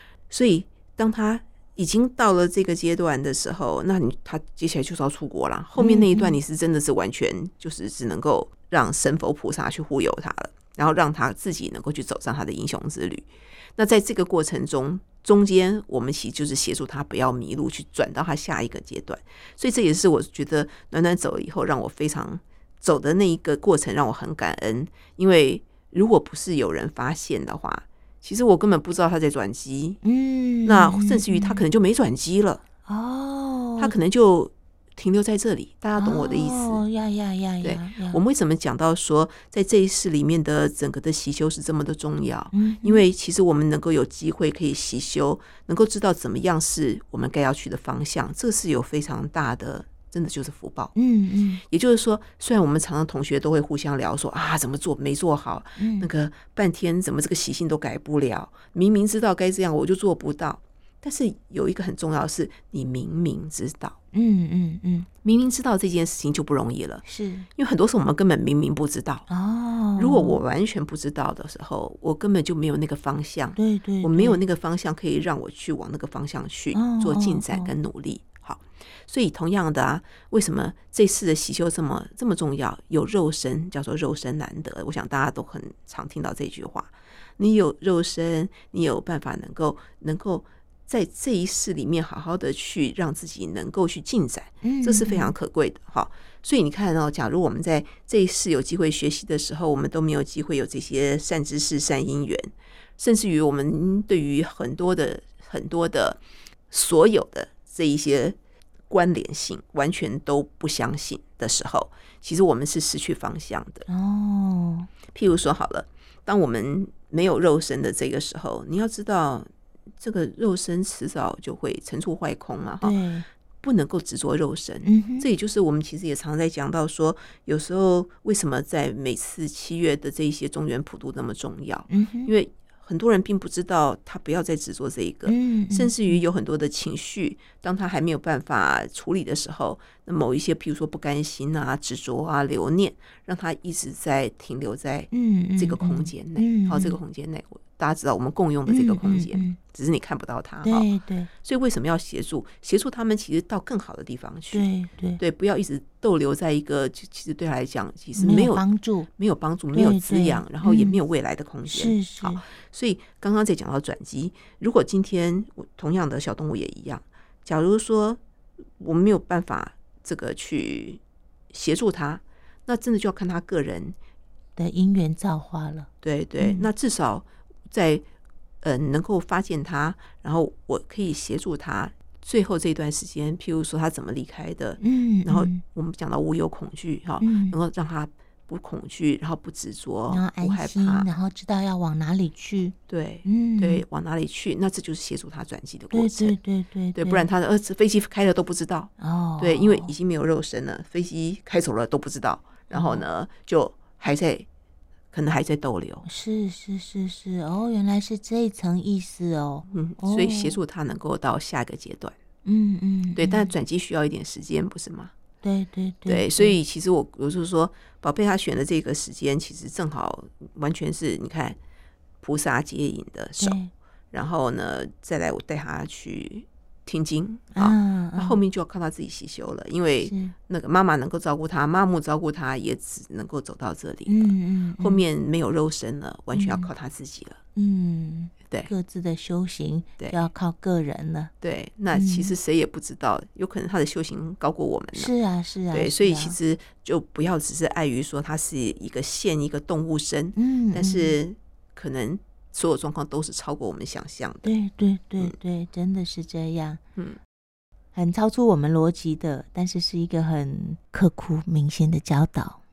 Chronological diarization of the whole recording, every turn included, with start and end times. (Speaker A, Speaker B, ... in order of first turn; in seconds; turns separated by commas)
Speaker A: 0.3-30.0, Speaker B: 5.8-6.4, Speaker B: 30.0-31.6, Speaker A: 30.6-32.6, Speaker B: 32.9-33.9, Speaker A: 33.8-36.8, Speaker B: 36.0-38.2, Speaker A: 37.6-50.9, Speaker B: 42.5-43.0, Speaker B: 51.0-51.6, Speaker A: 51.7-64.0, Speaker B: 55.8-56.1, Speaker B: 64.1-65.1, Speaker A: 65.2-67.0, Speaker B: 67.0-67.5, Speaker A: 67.6-69.2, Speaker B: 69.3-70.4, Speaker A: 70.0-106.2, Speaker B: 73.6-74.4, Speaker B: 76.7-77.7, Speaker B: 94.6-95.3, Speaker A: 106.7-108.4, Speaker A: 108.9-113.9, Speaker B: 113.9-114.9, Speaker A: 115.1-123.0, Speaker B: 122.8-123.3, Speaker A: 123.6-150.9, Speaker B: 124.8-125.3, Speaker B: 131.9-132.3, Speaker B: 135.3-136.2, Speaker B: 145.1-147.0, Speaker B: 148.7-149.6, Speaker B: 150.6-151.3, Speaker A: 151.4-154.7, Speaker B: 154.5-155.2, Speaker A: 155.2-158.6, Speaker B: 158.2-159.1, Speaker A: 159.2-168.2, Speaker B: 159.7-161.0, Speaker B: 161.7-162.4, Speaker A: 168.8-174.0, Speaker B: 174.6-175.9, Speaker A: 176.0-178.1, Speaker B: 176.4-176.7, Speaker A: 178.6-191.1, Speaker B: 184.8-185.6, Speaker B: 187.2-187.6, Speaker B: 190.1-193.8, Speaker A: 192.9-196.4, Speaker B: 195.9-197.3, Speaker A: 196.9-204.5, Speaker B: 199.0-199.9, Speaker B: 202.7-203.1, Speaker A: 205.1-206.1, Speaker B: 206.1-210.6, Speaker A: 209.7-212.2, Speaker B: 212.4-213.5, Speaker A: 213.2-215.1, Speaker B: 215.4-216.6, Speaker A: 216.1-221.6, Speaker A: 222.2-223.6, Speaker B: 223.4-223.7, Speaker A: 224.1-237.4, Speaker B: 227.5-228.4, Speaker B: 230.0-230.3, Speaker B: 234.1-235.0, Speaker B: 236.3-236.7, Speaker B: 237.6-241.3, Speaker A: 241.4-245.1, Speaker B: 241.9-242.3, Speaker B: 244.9-246.4, Speaker A: 245.7-254.5, Speaker B: 250.4-251.2, Speaker B: 254.4-256.8, Speaker B: 257.9-262.6